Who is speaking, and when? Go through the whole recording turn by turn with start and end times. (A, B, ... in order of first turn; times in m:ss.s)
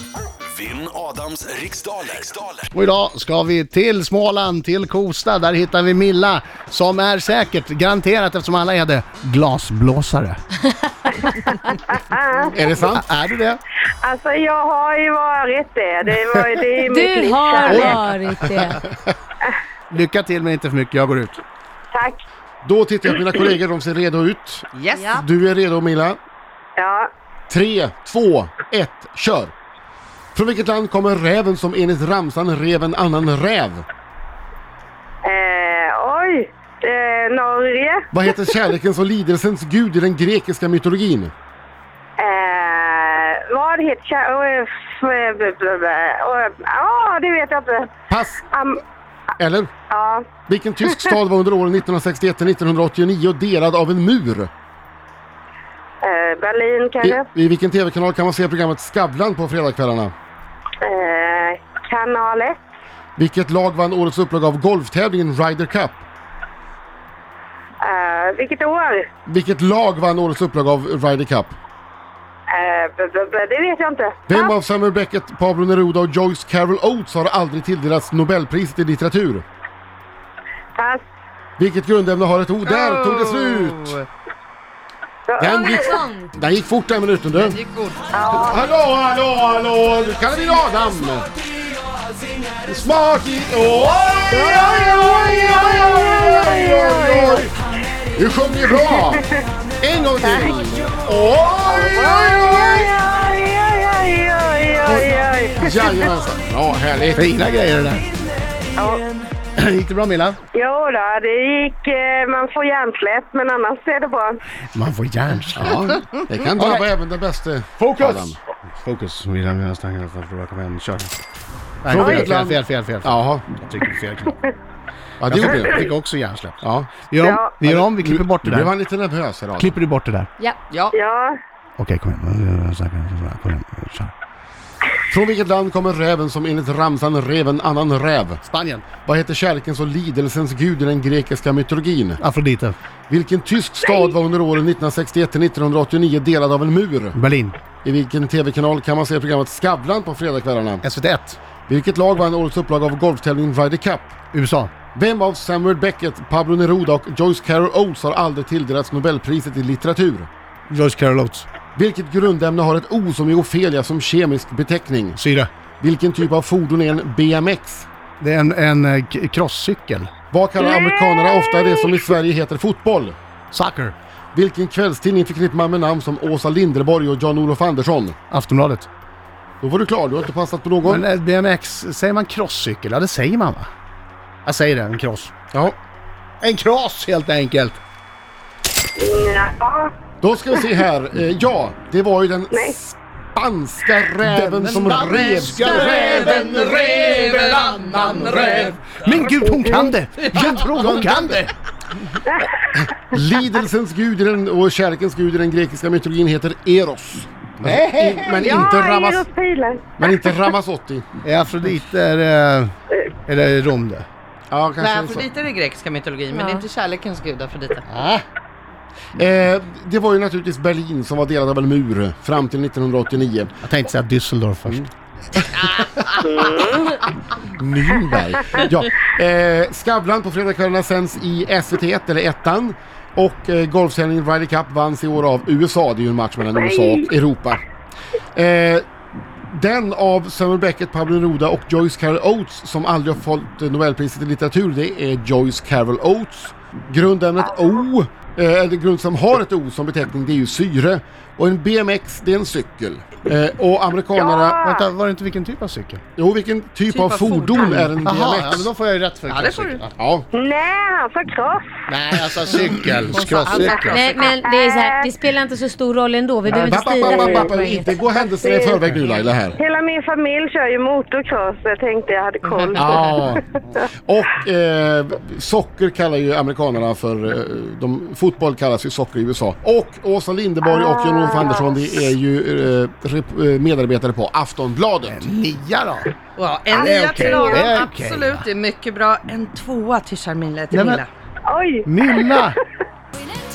0:00.5-0:02.6 A
0:02.7-0:10.4 B
0:11.9-0:12.6 C
0:12.6-0:13.0 D
0:12.9-0:13.6 B
0:14.0-0:18.0 C
0:16.8-0:18.8 E
0:17.7-0:18.8 D
0:19.9-0:21.4 B
0:22.6-0:26.2 D
0:24.8-0:25.2 F
0:26.8-0:27.1 C
0:27.5-0:29.5 D
0:30.4-0:33.8 D
0:35.2-0:38.1 C
0:38.1-0:41.3 D
0:42.2-0:47.9 C
0:48.1-0:48.4 D
0:48.5-0:48.8 C
0:49.4-0:49.7 D
0:49.9-0:50.3 C
0:50.5-0:54.5 D
0:56.0-0:57.3 C
0:57.0-1:00.1 D
1:00.8-1:02.6 C
1:03.2-1:06.0 D
1:07.8-1:09.1 C
1:09.3-1:11.6 D
1:12.5-1:14.5 C
1:14.3-1:19.4 D
1:21.6-1:24.0 D
1:22.7-1:24.1 F
1:25.3-1:26.0 C
1:25.4-1:27.6 D
1:25.4-1:26.3 E
1:27.3-1:28.0 F
1:28.1-1:28.6 C
1:28.3-1:31.3 D
1:32.6-1:37.5 D
1:34.3-1:37.4 C
1:38.2-1:39.2 D
1:39.8-1:42.9 D
1:40.2-1:40.6 C
1:41.7-1:46.0 C
1:44.8-1:47.3 D
1:47.2-1:48.1 B
1:48.8-1:49.1 C
1:49.6-1:50.4 B
1:50.5-1:54.4 C
1:54.7-1:55.9 B
1:55.6-1:58.4 D
1:56.6-1:56.9 B
1:57.8-2:01.2 B
2:01.8-2:04.4 B
2:01.9-2:03.4 D
2:02.0-2:02.3 C
2:05.2-2:05.8 D
2:05.3-2:08.7 B
2:06.6-2:07.0 D
2:07.2-2:07.5 C
2:07.6-2:09.8 D
2:09.6-2:10.3 B
2:10.9-2:11.4 C
2:11.8-2:14.1 B
2:15.1-2:18.4 D
2:18.4-2:18.9 B
2:19.0-2:22.2 D
2:22.2-2:22.8 B
2:23.1-2:27.2 D
2:27.2-2:27.6 B
2:27.8-2:30.8 D
2:30.8-2:31.4 B
2:31.7-2:34.1 D
2:34.3-2:34.7 B
2:34.9-2:40.3 D
2:40.7-2:41.5 B
2:41.8-2:45.2 D
2:45.1-2:45.5 B
2:45.8-2:47.9 D
2:48.2-2:50.1 B
2:50.3-2:53.2 D
2:50.6-2:51.8 C
2:53.5-2:54.0 B
2:54.3-2:58.2 D
2:58.3-2:58.9 B
2:59.6-3:01.1 D
3:00.8-3:03.7 B
3:04.4-3:05.3 B
3:06.4-3:07.8 B
3:09.0-3:09.9 C
3:10.2-3:16.6 D
3:14.2-3:21.5 B
3:15.6-3:19.0 F
3:20.4-3:21.4 D
3:22.6-3:29.2 D
3:27.6-3:28.7 B
3:28.4-3:29.9 C
3:30.0-3:31.1 D
3:31.2-3:32.7 B
3:33.3-3:34.1 B
3:34.5-3:35.3 D
3:34.8-3:37.8 F
3:36.4-3:36.6 E
3:37.9-3:38.2 B
3:39.2-3:43.5 D
3:43.6-3:44.9 B
3:45.6-3:46.6 D
3:46.2-3:47.0 C
3:47.4-3:57.6 D
3:56.6-3:57.1 C
3:58.4-3:58.8 D
3:59.5-4:14.6 D
4:14.2-4:14.9 C
4:14.6-4:16.0 B
4:16.2-4:18.7 D
4:16.9-4:17.9 F
4:18.0-4:19.9 B
4:19.3-4:19.8 F
4:20.0-4:20.3 D
4:20.3-4:21.6 C
4:21.9-4:24.0 B
4:23.1-4:24.4 F
4:23.8-4:28.0 E
4:24.4-4:25.1 C
4:26.5-4:29.6 D
4:28.4-4:28.8 C
4:29.6-4:33.0 C
4:32.5-4:33.0 F
4:32.8-4:45.2 D
4:40.7-4:41.9 C
4:45.0-4:46.2 B
4:46.4-4:51.1 F
4:46.7-4:47.7 C
4:46.8-4:48.5 B
4:50.7-4:51.0 B
4:51.5-4:52.4 C
4:51.9-4:52.6 B